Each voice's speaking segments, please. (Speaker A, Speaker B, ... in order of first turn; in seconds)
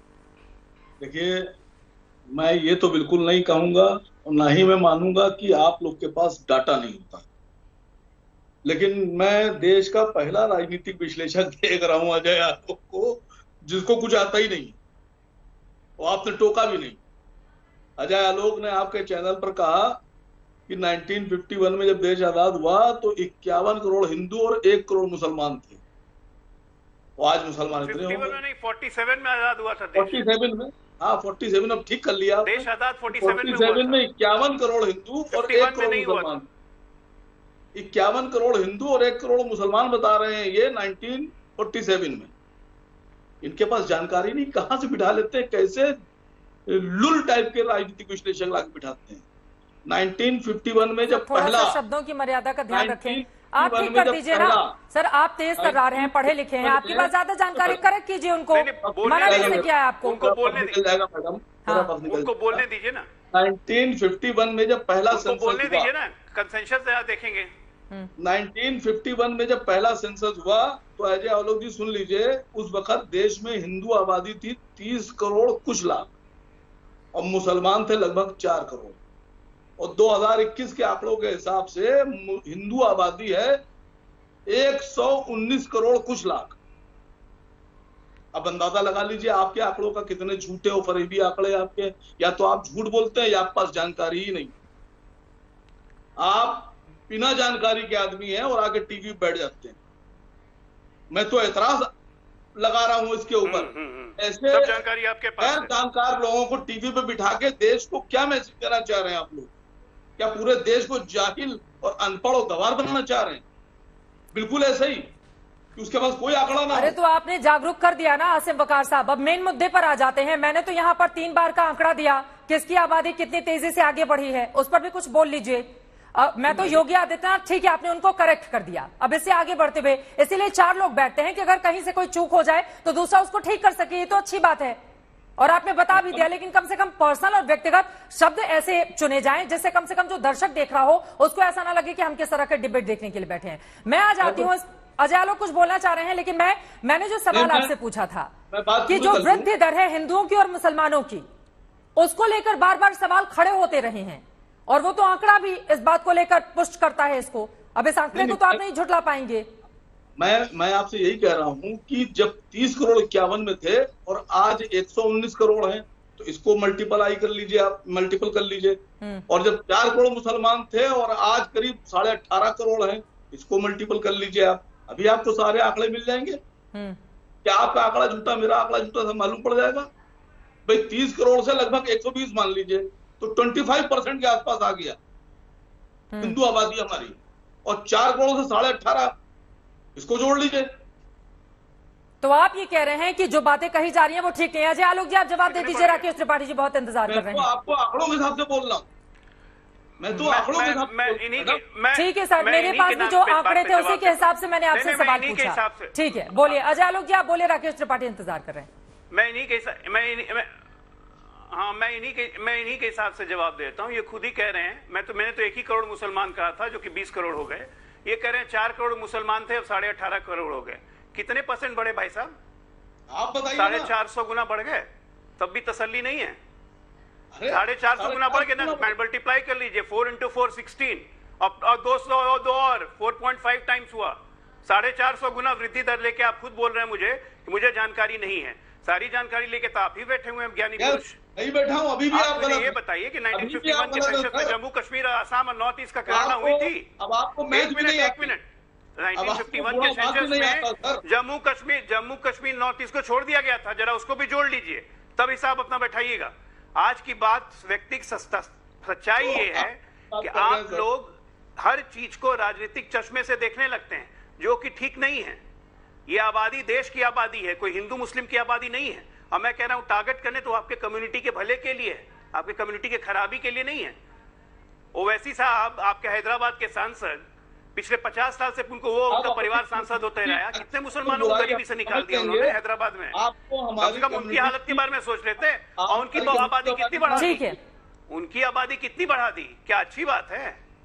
Speaker A: 1.0-1.4, 2.3-7.3, 8.6-14.8, 16.0-17.0, 18.0-20.0, 20.7-25.8, 27.2-28.4, 29.9-36.5, 37.7-42.3, 43.4-45.9, 46.7-49.2, 49.9-51.8, 52.7-54.7, 55.6-57.8, 58.9-62.6, 63.3-65.9, 68.2-76.1, 77.1-79.0, 79.8-83.6, 84.5-86.6, 88.3-94.5, 96.2-99.8, 101.1-101.9, 102.5-104.8, 105.4-109.5, 110.2-113.4, 114.3-115.1, 115.8-117.0, 126.5-126.8, 135.9-136.2, 144.2-144.5, 147.3-147.7, 148.5-149.5, 158.1-158.6, 160.2-168.8, 169.3-176.4, 177.4-179.9, 180.7-185.0, 186.2-189.1, 189.9-190.7, 197.1-198.9, 200.0-201.6, 223.1-223.9, 227.3-228.9, 240.8-242.7, 243.3-244.6, 246.1-248.3, 249.1-251.0, 259.2-260.9, 279.1-282.6, 283.1-284.8, 285.8-287.5
Speaker B: 27.8-30.2, 32.4-34.0, 35.3-36.4, 58.5-60.8, 62.1-63.1, 65.1-67.5, 103.4-105.7, 195.5-196.0, 200.2-206.6, 209.1-210.5, 211.5-222.3, 223.5-224.8, 225.4-226.4, 227.5-241.2, 242.1-246.8, 247.5-248.4, 249.0-265.4, 266.1-274.0, 274.9-277.2, 277.7-283.1, 283.8-287.5, 288.1-290.6
Speaker C: 51.2-60.6, 61.6-61.9, 116.7-134.8, 135.4-148.3, 148.9-151.2, 151.9-159.4, 186.1-186.4, 192.2-197.5, 201.9-208.7, 287.1-287.6